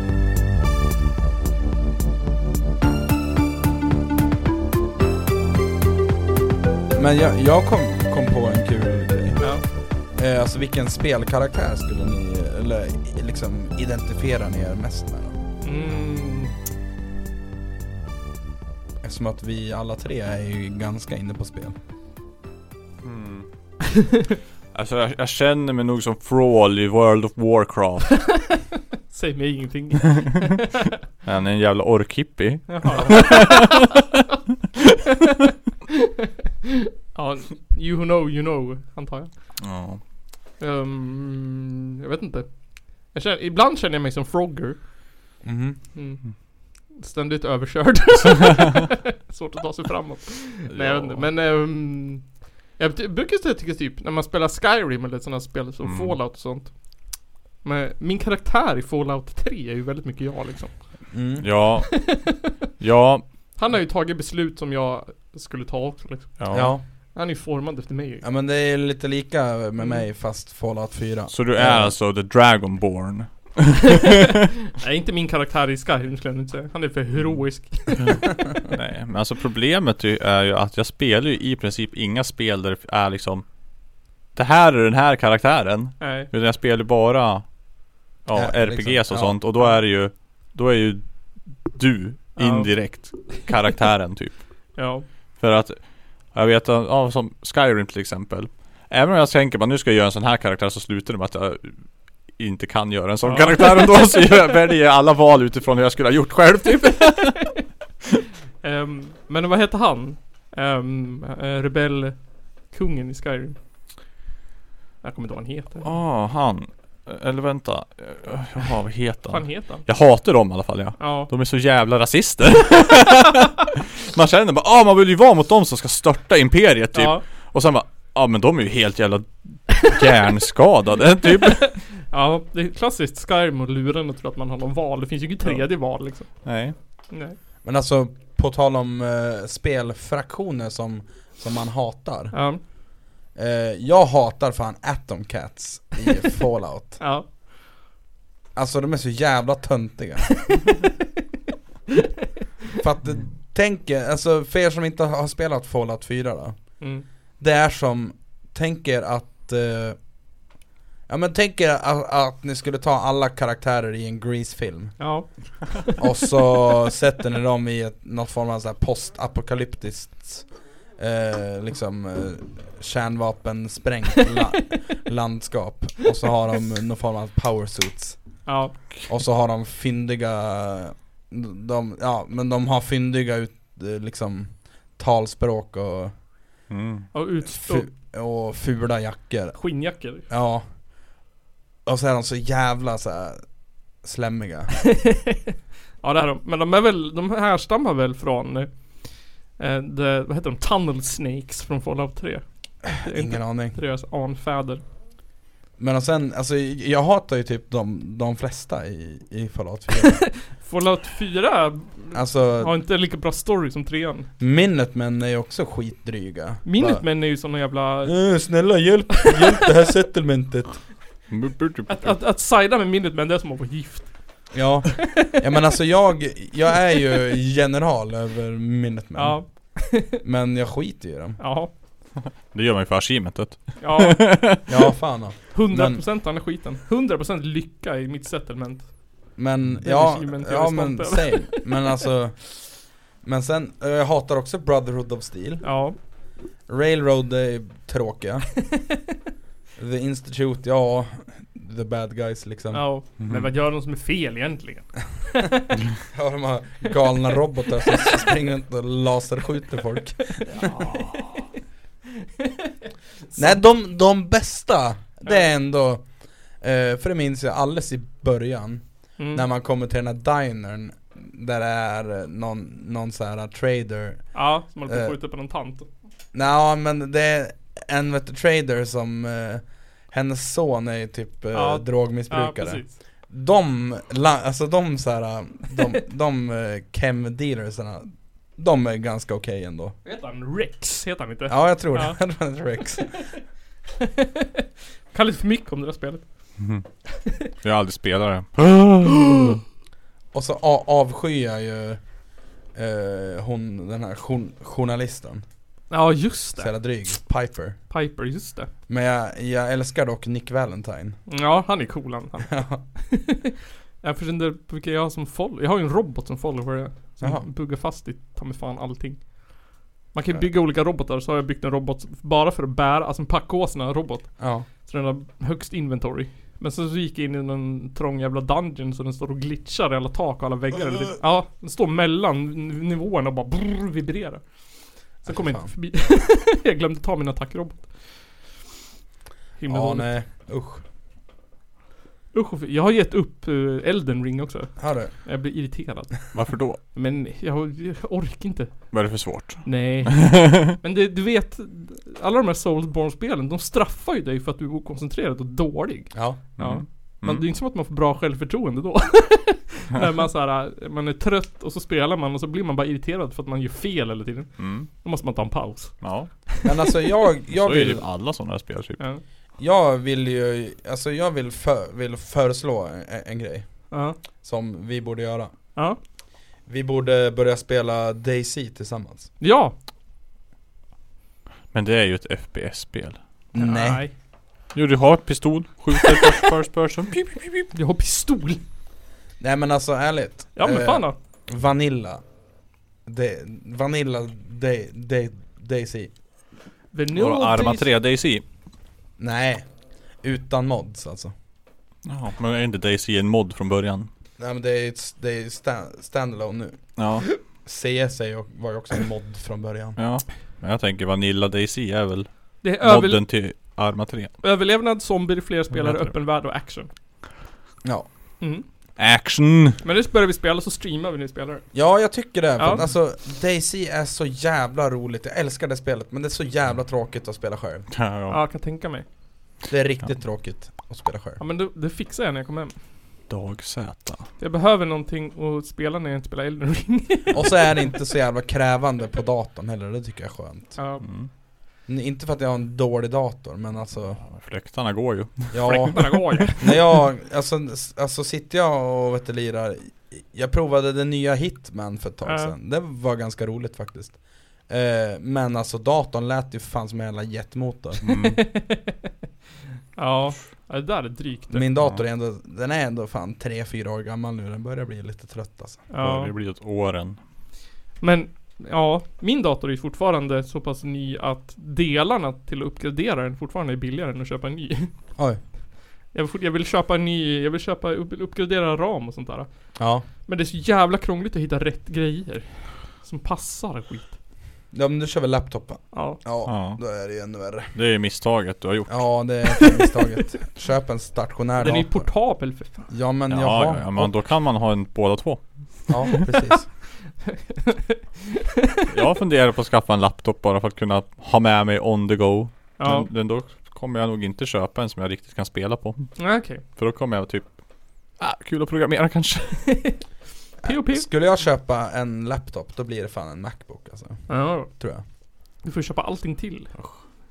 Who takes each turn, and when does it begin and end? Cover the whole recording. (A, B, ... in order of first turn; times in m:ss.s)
0:06.9-0:09.5 A
0:09.4-0:09.6 B
0:10.1-0:15.3 A
0:15.6-0:16.5 B
0:19.0-0:21.7 A
0:23.0-0:23.5 C
0:24.7-0:28.4 C
0:28.3-0:31.0 B
0:31.2-0:33.8 C
0:32.7-0:33.8 B
0:37.1-0:39.6 B
0:39.6-0:40.0 C
0:40.6-0:44.9 B
0:45.4-0:45.8 A
0:45.9-1:01.1 B
0:50.7-0:51.3 C
0:55.8-0:56.2 C
1:01.1-1:01.7 A
1:01.4-1:03.2 C
1:01.8-1:02.4 B
1:03.5-1:08.2 B
1:06.4-1:06.7 C
1:06.5-1:06.8 A
1:08.2-1:11.9 A
1:11.3-1:14.1 C
1:14.2-1:18.3 B
1:18.7-1:23.4 C
1:24.3-1:27.4 C
1:26.0-1:26.3 B
1:28.2-1:34.4 C
1:28.3-1:29.4 A
1:32.4-1:33.0 B
1:34.7-1:35.0 B
1:35.4-1:47.6 C
1:43.2-1:44.0 B
1:48.6-1:53.6 B
1:55.0-1:55.9 B
1:55.8-2:11.8 C
1:59.3-1:59.8 B
2:01.0-2:01.3 B
2:06.9-2:07.2 B
2:11.4-2:17.4 B
2:15.4-2:16.7 C
2:17.6-2:22.4 A
2:22.3-2:22.6 B
2:23.3-2:27.0 A
2:27.0-2:27.3 B
2:28.5-2:30.5 A
2:32.8-2:36.8 A
2:36.8-2:37.1 B
2:37.4-2:40.1 A
2:41.1-2:45.0 A
2:45.0-2:46.0 B
2:46.0-2:58.4 A
2:58.4-2:58.8 B
2:59.1-3:06.1 A
3:06.7-3:07.1 C
3:07.1-3:07.9 B
3:07.4-3:10.6 A
3:09.6-3:10.3 B
3:11.8-3:13.4 A
3:14.0-3:14.8 A
3:15.0-3:15.4 B
3:16.0-3:24.8 B
3:22.9-3:23.8 A
3:25.8-3:30.3 A
3:30.2-3:34.3 B
3:32.1-3:32.7 A
3:34.4-3:37.0 A
3:36.6-3:38.4 B
3:38.0-3:40.8 A
3:41.3-3:42.2 C
3:41.9-3:45.0 B
3:44.5-3:51.4 A
3:49.1-3:50.2 B
3:51.4-3:51.7 B
3:52.5-3:54.6 C
3:53.8-3:54.3 B
3:54.7-3:56.0 A
3:55.5-3:59.0 B
3:59.4-4:05.7 A
3:59.8-4:01.9 B
4:05.6-4:06.0 B
4:06.7-4:08.6 A
4:09.8-4:12.9 A
4:12.7-4:15.7 B
4:13.2-4:13.5 C
4:16.1-4:20.8 A
4:20.6-4:21.1 B
4:20.9-4:21.2 C
4:23.3-4:23.6 B
4:23.4-4:35.2 A
4:29.2-4:29.4 B
4:34.3-4:35.9 B
4:36.3-4:50.0 A
4:41.5-4:43.0 B
4:50.0-4:52.2 B
4:51.5-4:53.2 A
4:52.8-4:53.2 B
4:54.0-4:56.2 B
4:56.6-4:56.8 C
4:57.2-4:57.4 B
4:57.4-4:59.6 C
4:59.2-4:59.6 B
5:00.3-5:02.0 A
5:02.7-5:05.4 A
5:05.9-5:06.8 B
5:06.6-5:07.8 A
5:07.9-5:08.7 B
5:08.9-5:11.2 A
5:11.3-5:34.4 B
5:12.4-5:12.8 A
5:17.2-5:17.5 A
5:24.4-5:24.7 A
5:35.2-5:37.9 B
5:35.2-5:35.7 A
5:39.6-5:40.2 B
5:39.7-5:40.8 A
5:42.3-6:06.7 B
5:44.8-5:45.1 A
5:46.3-5:46.8 C
5:48.9-5:50.6 C
5:56.1-5:56.4 A
5:56.6-5:57.4 C
6:04.6-6:04.9 C
6:06.0-6:06.3 C
6:06.6-6:08.0 A
6:07.5-6:09.0 C
6:09.6-6:13.9 A
6:13.9-6:14.2 B
6:14.4-6:15.5 A
6:16.6-6:19.3 A
6:19.4-6:19.7 B
6:21.7-6:23.2 C
6:23.5-6:24.0 A
6:23.6-6:24.1 B
6:24.7-6:27.7 C
6:27.7-6:28.6 B
6:29.4-6:32.2 A
6:30.6-6:31.2 B
6:33.0-6:36.1 A
6:36.9-6:37.9 B
6:37.1-6:38.4 C
6:39.2-6:39.7 A
6:40.2-6:41.3 A
6:42.0-6:44.1 C
6:44.4-6:50.0 A
6:47.0-6:47.3 C
6:50.0-6:54.3 C
6:52.6-6:53.6 B
6:54.4-6:56.9 B
6:55.7-6:56.2 C
6:58.4-6:58.6 B
6:59.0-6:59.8 C
6:59.8-7:01.6 B
7:01.7-7:07.9 A
7:02.6-7:02.8 B
7:07.9-7:08.4 C
7:08.3-7:09.0 B
7:09.7-7:11.4 A
7:11.4-7:12.7 B
7:13.3-7:14.3 C
7:14.4-7:17.6 B
7:17.3-7:20.8 A
7:20.8-7:21.0 B
7:21.0-7:21.3 C
7:21.9-7:24.2 A
7:24.2-7:26.4 C
7:25.5-7:38.0 A
7:25.6-7:26.7 B
7:32.2-7:32.5 B
7:38.0-7:38.4 C
7:38.2-7:39.0 B
7:39.9-7:41.7 B
7:41.5-7:45.9 A
7:45.9-7:46.3 B
7:46.0-7:47.2 C
7:48.0-7:54.9 B
7:56.1-7:59.5 B
7:59.8-8:00.0 A
8:00.2-8:04.2 B
8:04.7-8:07.7 A
8:05.9-8:06.2 B
8:06.4-8:06.8 C
8:07.7-8:09.4 C
8:08.9-8:12.1 A
8:11.6-8:12.9 B
8:12.9-8:14.1 A
8:13.3-8:16.1 C
8:15.9-8:16.7 A
8:17.3-8:18.8 B
8:18.9-8:27.5 C
8:22.8-8:23.1 B
8:26.2-8:26.6 B
8:28.2-8:29.9 C
8:29.7-8:30.0 B
8:30.6-8:35.0 A
8:30.6-8:31.1 B
8:34.3-8:34.7 B
8:35.6-8:36.7 B